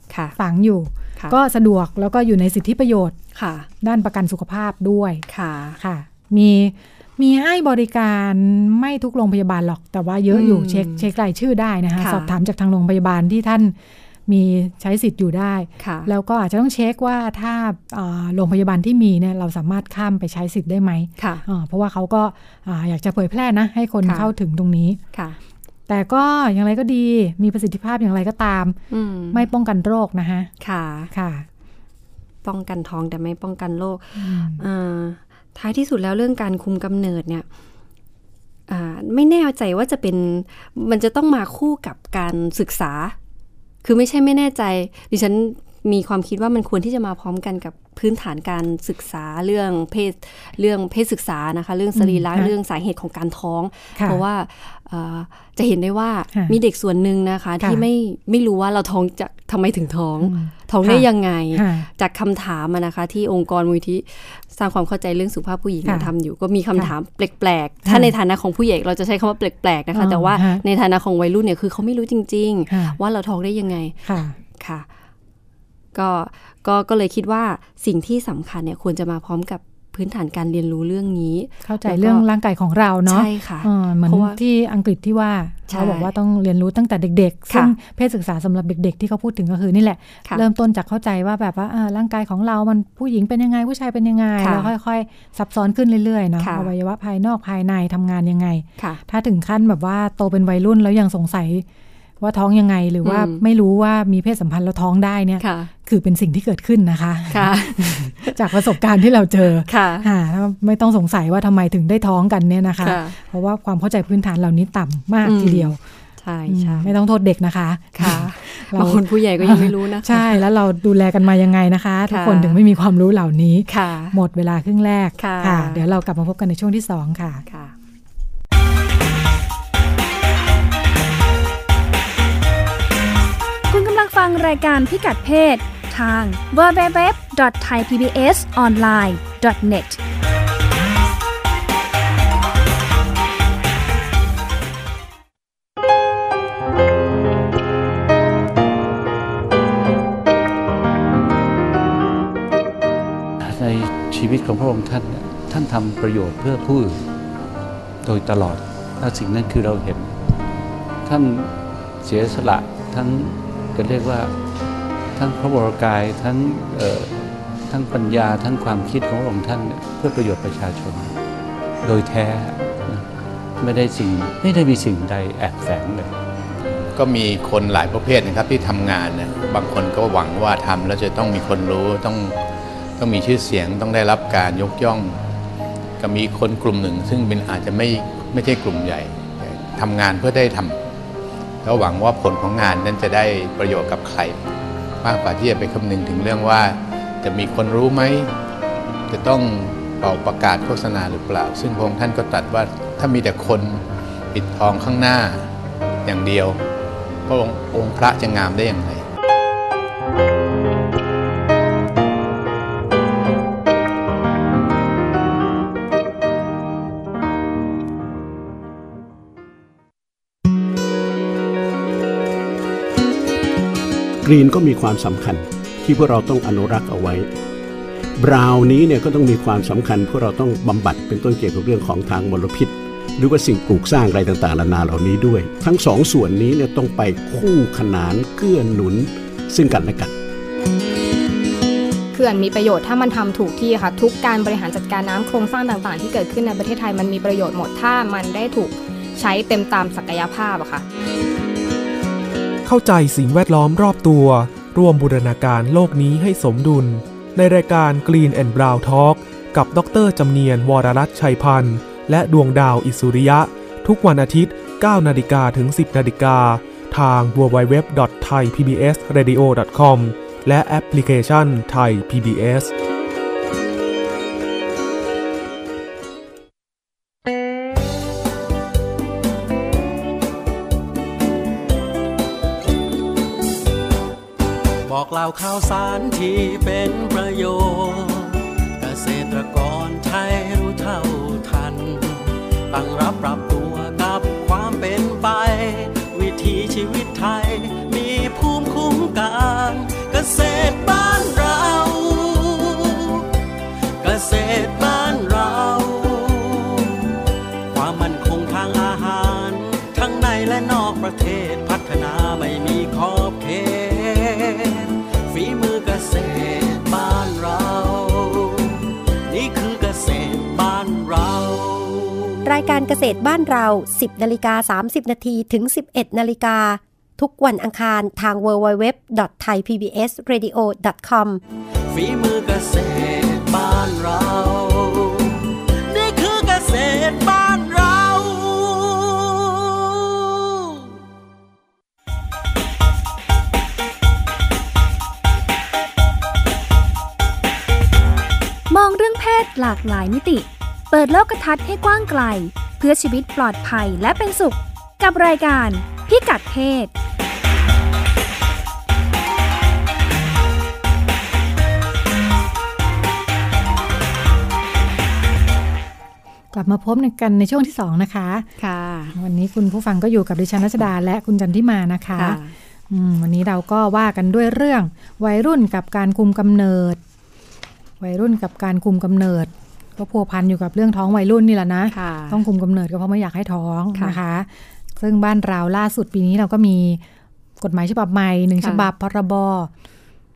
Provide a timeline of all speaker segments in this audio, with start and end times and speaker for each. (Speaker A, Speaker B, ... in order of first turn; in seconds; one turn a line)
Speaker A: 0.1-0.4
Speaker B: 0.4-3.1
Speaker A: 3.3-3.7
Speaker B: 3.8-5.2
Speaker A: 5.3-5.8
Speaker B: 5.8-13.8
Speaker A: 10.3-11.1
Speaker A: 12.0-12.3
Speaker B: 14.3-25.0
Speaker A: 15.8-16.1
Speaker A: 21.2-21.4
Speaker A: 24.0-24.3
Speaker A: 25.1-25.4
Speaker B: 25.9-28.8
Speaker A: 28.9-29.4
Speaker B: 29.3-30.5
Speaker A: 30.6-31.1
Speaker B: 31.1-31.5
Speaker A: 32.4-37.5
Speaker B: 34.2-34.6
Speaker A: 38.7-43.1
Speaker A: 43.8-74.0
Speaker B: 51.9-52.5
Speaker B: 54.0-54.2
Speaker B: 60.2-61.9
Speaker B: 65.8-66.1
Speaker B: 67.8-68.1
Speaker B: 69.9-70.6
Speaker B: 72.7-73.0
Speaker B: 74.0-74.3
Speaker A: 74.5-74.8
Speaker A: 75.9-82.2
Speaker B: 81.6-101.6
Speaker A: 83.1-84.4
Speaker A: 85.7-86.1
Speaker A: 94.4-94.7
Speaker A: 96.4-96.7
Speaker B: 102.2-115.8
Speaker A: 103.0-103.4
Speaker A: 105.4-105.7
Speaker A: 107.3-108.8
Speaker A: 109.7-110.1
Speaker A: 112.8-113.2
Speaker A: 115.2-116.9
Speaker B: 116.5-127.4
Speaker A: 118.0-120.4
Speaker A: 122.1-122.6
Speaker A: 123.7-124.2
Speaker A: 125.2-125.8
Speaker A: 127.5-127.7
Speaker C: 133.7-140.0
Speaker D: 153.4-157.1
Speaker D: 158.0-160.1
Speaker D: 161.0-164.3
Speaker D: 165.1-171.1
Speaker D: 171.8-173.1
Speaker D: 173.6-176.1
Speaker E: 176.9-182.4
Speaker E: 183.0-185.2
Speaker E: 186.0-190.8
Speaker E: 191.6-194.4
Speaker E: 195.0-198.3
Speaker E: 199.1-205.5
Speaker E: 206.0-206.6
Speaker E: 207.3-209.0
Speaker F: 224.2-227.2
Speaker F: 228.2-240.1
Speaker G: 242.1-250.8
Speaker H: 252.6-272.7
Speaker I: 284.8-303.2
Speaker I: 304.0-307.0
Speaker I: 307.7-318.8
Speaker I: 319.3-322.5
Speaker J: 322.4-331.4
Speaker I: 331.9-340.8
Speaker C: 348.7-356.9
Speaker B: 366.5-368.5
Speaker A: 368.6-369.2
Speaker B: 369.1-372.4
Speaker A: 372.1-372.5
Speaker B: 372.9-377.0
Speaker B: 378.0-387.0
Speaker A: 381.9-382.4
Speaker B: 387.6-389.7
Speaker A: 388.6-388.9